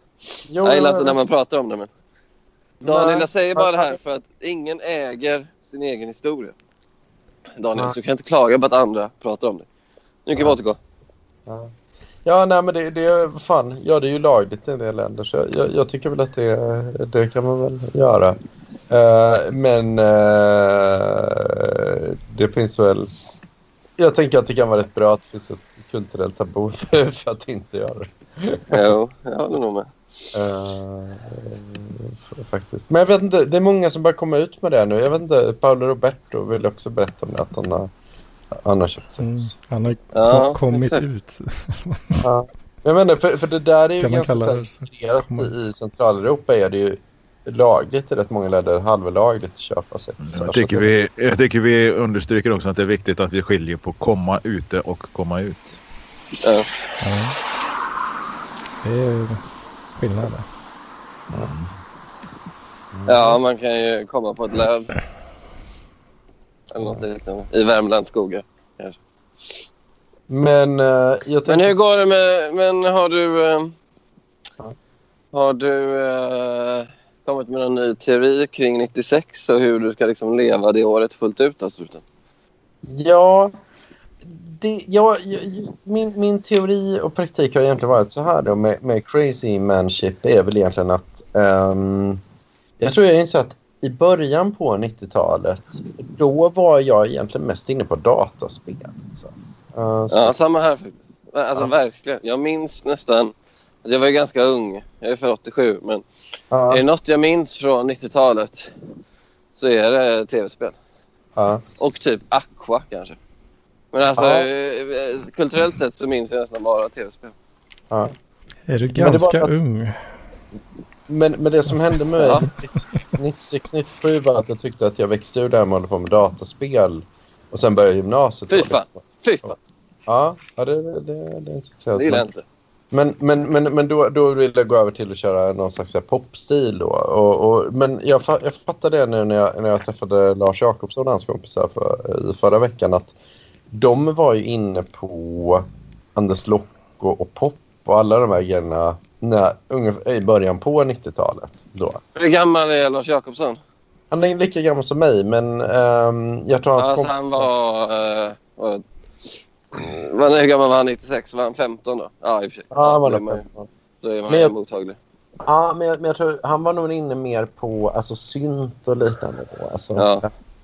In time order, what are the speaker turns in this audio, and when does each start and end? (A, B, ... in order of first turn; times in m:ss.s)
0:00.5-0:01.2 A
0:00.6-0:01.9 B
0:02.8-0:04.0 A
0:02.8-0:06.6 B
0:07.6-0:09.7 B
0:10.3-0:10.8 B
0:11.5-0:11.7 A
0:12.2-0:18.4 A
0:18.9-0:23.2 A
0:24.0-0:28.9 A
0:28.7-0:29.9 B
0:30.3-0:37.9 A
0:38.5-0:39.5 A
0:39.2-0:42.3 C
0:40.1-0:41.0 B
0:42.2-0:50.9 A
0:44.0-0:45.5 C
0:50.2-0:55.8 D
0:56.4-0:56.7 B
0:57.0-0:57.4 C
0:58.8-0:59.4 C
1:00.0-1:00.4 C
1:01.3-1:01.7 D
1:02.9-1:03.4 A
1:03.1-1:05.0 B
1:06.7-1:09.0 B
1:10.3-1:11.7 A
1:11.5-1:13.7 B
1:15.3-1:22.0 B
1:22.8-1:23.5 A
1:24.2-1:32.2 A
1:32.8-1:40.3 A
1:40.1-1:46.0 B
1:46.5-1:46.8 A
1:46.7-1:48.7 B
1:49.6-1:50.8 B
1:51.4-1:51.6 A
1:51.8-1:53.2 B
1:53.9-1:57.3 B
1:54.2-1:54.5 A
1:58.7-2:00.1 C
1:58.9-1:59.5 A
2:01.1-2:09.0 A
2:02.2-2:02.5 B
2:08.5-2:09.6 B
2:10.1-2:12.3 A
2:11.9-2:12.4 B
2:12.9-2:23.1 A
2:23.7-2:32.0 A
2:32.2-2:33.6 B
2:34.1-2:37.5 A
2:36.8-2:43.4 B
2:42.7-2:43.7 A
2:44.0-2:45.0 B
2:45.4-2:50.3 A
2:50.0-2:50.2 B